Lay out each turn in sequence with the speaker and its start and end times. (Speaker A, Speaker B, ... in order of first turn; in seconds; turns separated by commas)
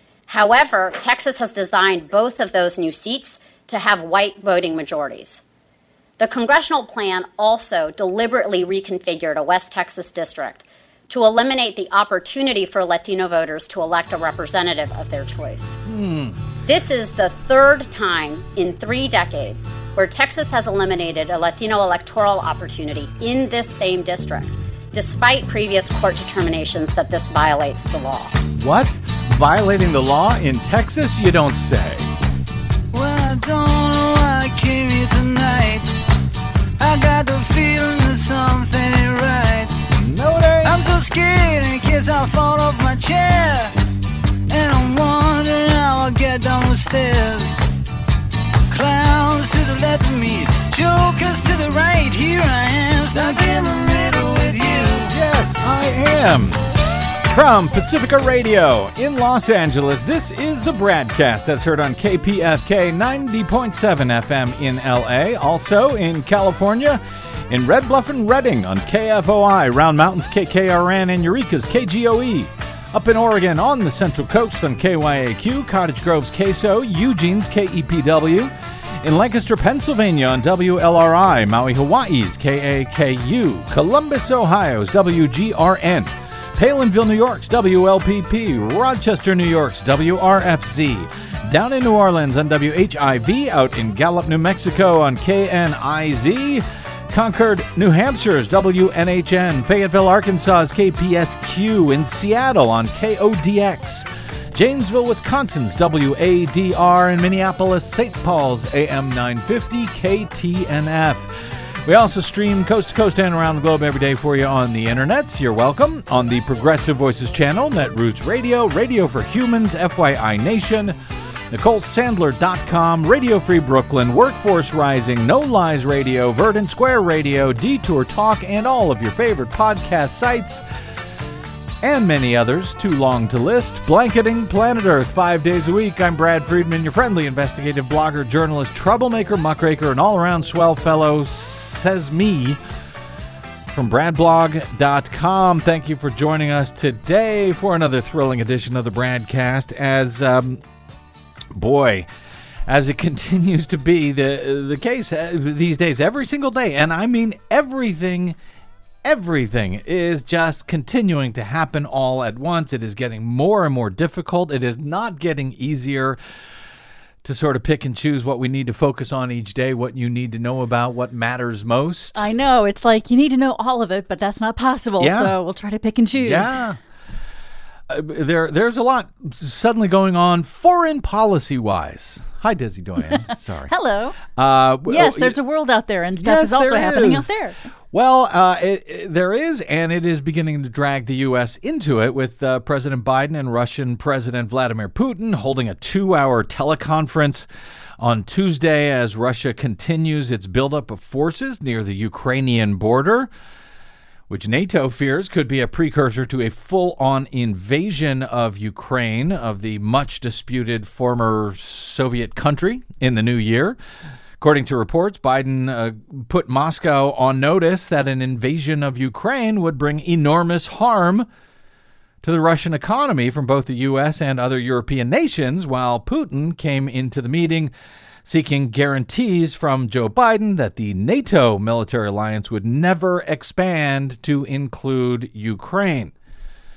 Speaker A: 0.3-5.4, Speaker A: 6.2-15.8, Speaker B: 15.8-16.4, Speaker A: 16.6-28.4, Speaker B: 28.6-32.1, Speaker C: 32.9-35.9, Speaker C: 36.8-39.7, Speaker B: 39.9-40.8, Speaker C: 40.6-43.7, Speaker C: 44.5-47.6, Speaker C: 48.7-55.1, Speaker B: 53.1-53.4, Speaker B: 55.1-56.6, Speaker B: 57.3-121.0, Speaker B: 121.5-130.6, Speaker B: 131.8-142.6, Speaker B: 143.7-150.6, Speaker B: 151.5-152.1, Speaker B: 152.7-158.4, Speaker B: 159.0-166.2, Speaker B: 167.2-172.2, Speaker D: 172.2-176.6, Speaker B: 175.0-175.4, Speaker B: 176.1-176.8, Speaker B: 177.9-183.7, Speaker D: 183.7-184.2, Speaker B: 184.3-185.4, Speaker D: 184.9-187.6, Speaker B: 186.1-187.3, Speaker B: 187.9-197.5, Speaker B: 198.0-203.3, Speaker B: 204.3-213.8, Speaker B: 214.4-221.3, Speaker B: 222.2-227.7, Speaker B: 228.2-236.1